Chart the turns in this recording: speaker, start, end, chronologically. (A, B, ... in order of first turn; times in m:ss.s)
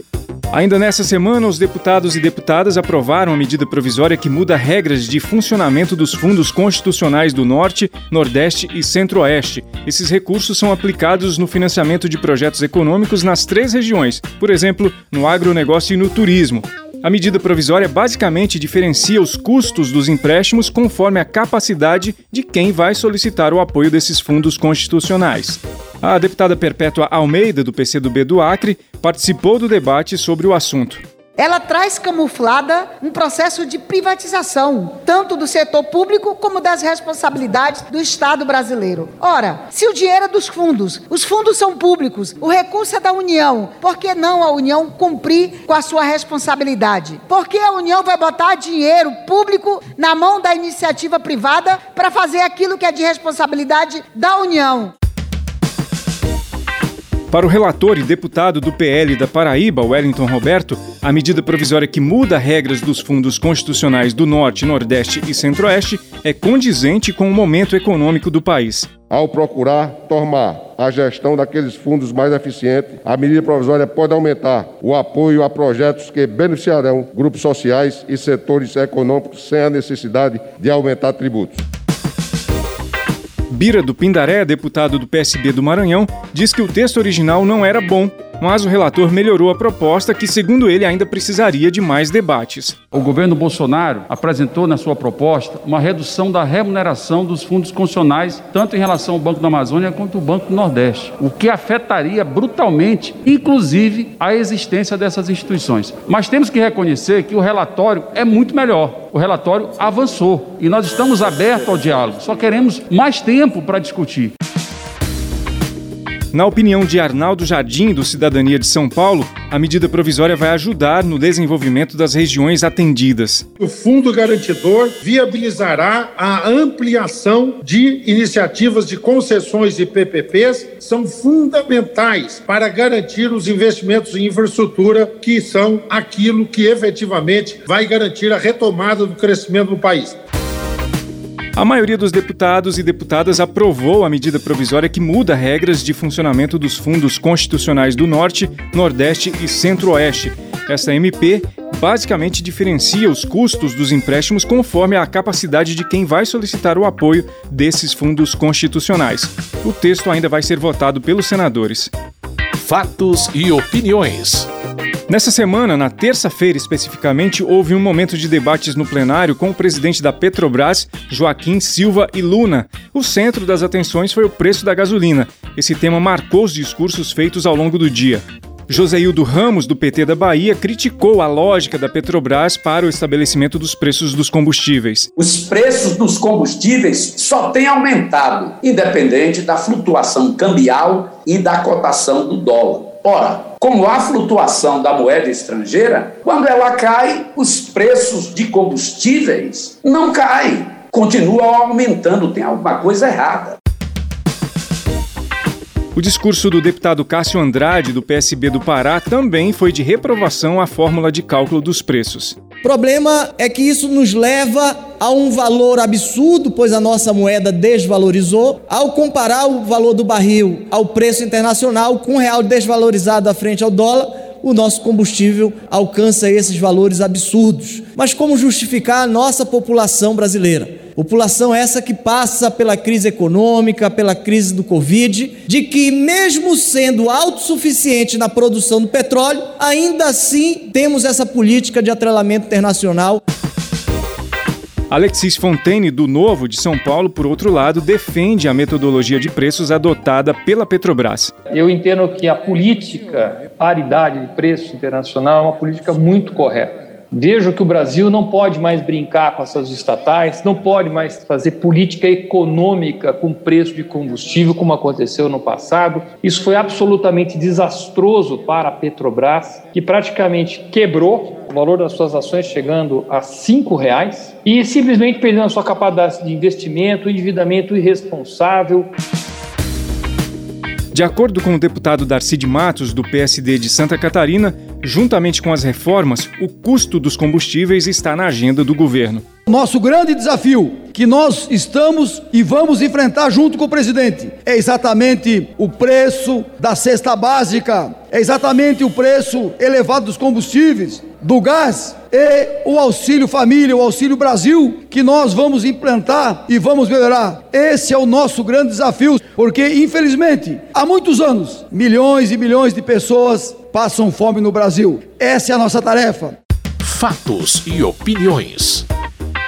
0:00.5-0:31.0 A
0:31.4-0:54.9 B
0:57.3-1:08.9 A
1:09.1-1:21.6 C
1:23.5-1:32.8 A
1:32.9-1:54.3 D
1:56.3-2:03.5 A
2:03.6-2:20.2 E
2:21.6-2:41.9 A
2:42.6-2:44.5 F
2:45.1-3:05.1 A
3:05.2-3:23.6 G
3:26.0-3:32.4 A
3:32.6-4:03.2 H
4:04.9-4:11.3 A
4:11.5-4:38.9 I
4:40.9-4:49.2 A
4:49.5-5:16.4 J
5:16.8-5:18.9 F